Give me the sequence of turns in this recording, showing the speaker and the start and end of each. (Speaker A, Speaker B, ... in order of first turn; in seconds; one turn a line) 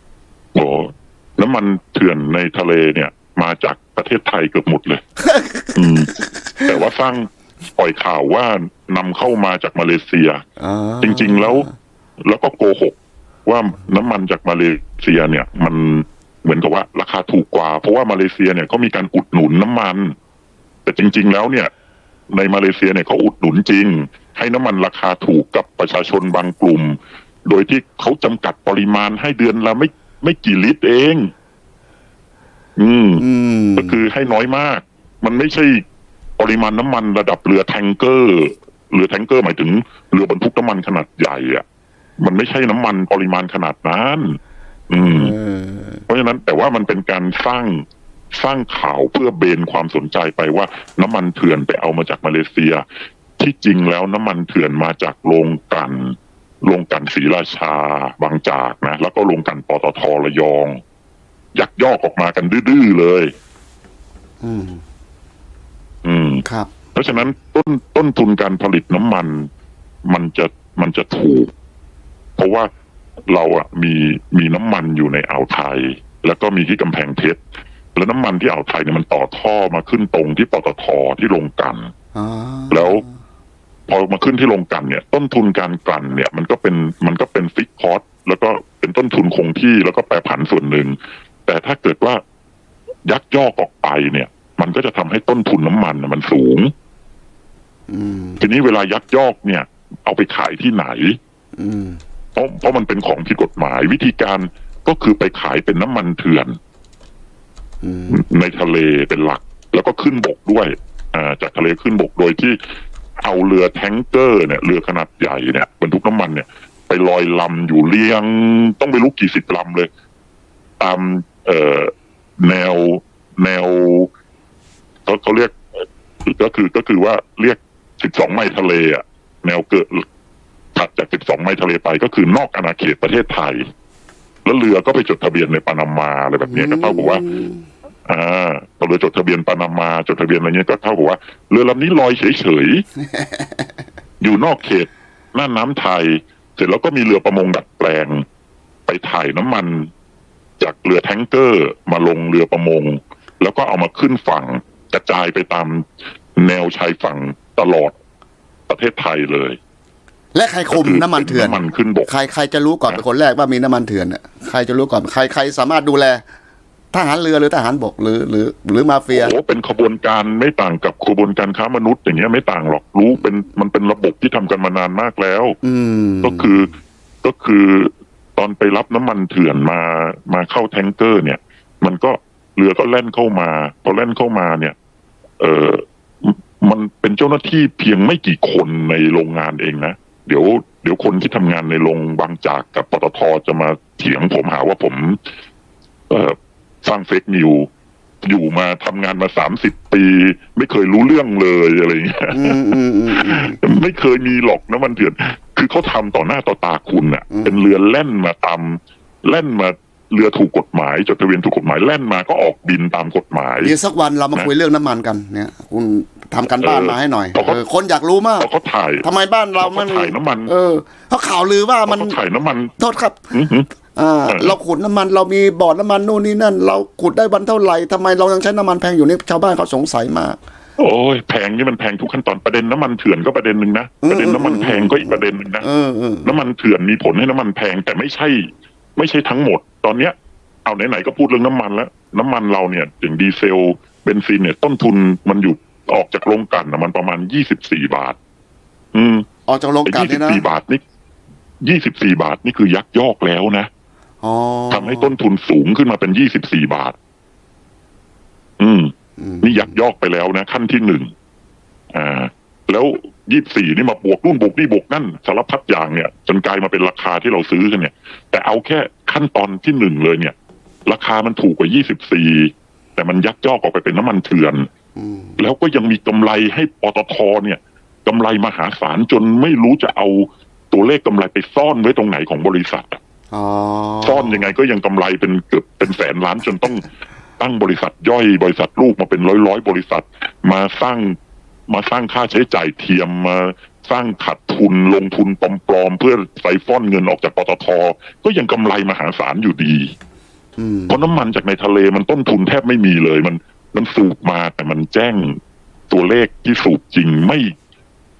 Speaker A: 0.6-5.0
Speaker B: 5.2-6.7
Speaker A: 5.8-6.1
Speaker A: 6.7-10.4
Speaker B: 10.6-11.7
Speaker A: 11.0-11.7
Speaker A: 12.2-20.1
Speaker A: 20.9-21.7
Speaker A: 22.3-31.3
Speaker A: 32.8-33.2
Speaker B: 33.2-34.0
Speaker A: 33.8-35.8
Speaker A: 36.4-41.6
Speaker A: 42.2-44.4
Speaker A: 44.9-45.4
Speaker B: 45.0-46.0
Speaker A: 46.1-52.8
Speaker A: 53.4-60.8
Speaker A: 61.5-63.3
Speaker B: 64.4-64.8
Speaker A: 66.0-69.5
Speaker B: 66.5-66.7
Speaker A: 70.1-71.5
Speaker A: 72.4-72.7
Speaker A: 73.3-77.4
Speaker A: 78.0-81.9
Speaker B: 82.2-83.0
Speaker A: 82.7-83.0
Speaker A: 83.9-92.2
Speaker A: 93.0-96.7
Speaker B: 97.9-98.4
Speaker A: 98.4-101.2
Speaker B: 101.6-102.0
Speaker A: 102.3-106.6
Speaker B: 107.8-108.2
Speaker A: 108.1-112.6
Speaker A: 113.2-119.9
Speaker A: 120.8-124.1
Speaker A: 125.1-125.6
Speaker A: 126.2-130.1
Speaker A: 130.8-133.7
Speaker A: 134.4-137.2
Speaker B: 136.5-137.7
Speaker A: 138.1-142.8
Speaker B: 143.1-143.7
Speaker A: 144.2-148.2
Speaker A: 148.9-149.9
Speaker A: 150.6-155.8
Speaker A: 156.4-157.9
Speaker A: 158.7-159.6
Speaker B: 160.3-166.2
Speaker A: 160.7-162.1
Speaker B: 166.9-169.4
Speaker A: 169.1-175.6
Speaker B: 175.6-176.5
Speaker A: 176.2-176.7
Speaker A: 177.2-184.8
Speaker A: 185.4-195.2
Speaker A: 196.1-197.7
Speaker A: 198.2-213.7
Speaker B: 202.3-203.6
Speaker B: 207.3-207.6
Speaker B: 213.6-218.5
Speaker A: 216.6-217.6
Speaker A: 218.4-219.1
Speaker B: 219.0-222.2
Speaker A: 219.6-220.5
Speaker A: 221.9-222.7
Speaker B: 222.8-223.3
Speaker A: 223.3-223.7
Speaker B: 223.9-230.4
Speaker A: 224.3-224.6
Speaker A: 230.8-235.7
Speaker B: 234.0-236.3
Speaker A: 236.2-248.2
Speaker A: 248.9-249.3
Speaker B: 249.5-250.4
Speaker A: 249.8-250.8
Speaker A: 251.6-253.7
Speaker B: 254.2-255.1
Speaker A: 254.7-257.0
Speaker A: 258.6-261.1
Speaker B: 259.2-259.7
Speaker A: 261.9-270.4
Speaker A: 270.9-274.7
Speaker B: 275.0-275.4
Speaker A: 275.4-283.0
Speaker B: 283.3-284.5
Speaker A: 284.0-286.9
Speaker A: 287.4-291.2
Speaker A: 291.7-299.9
Speaker B: 300.6-301.0
Speaker A: 300.9-307.5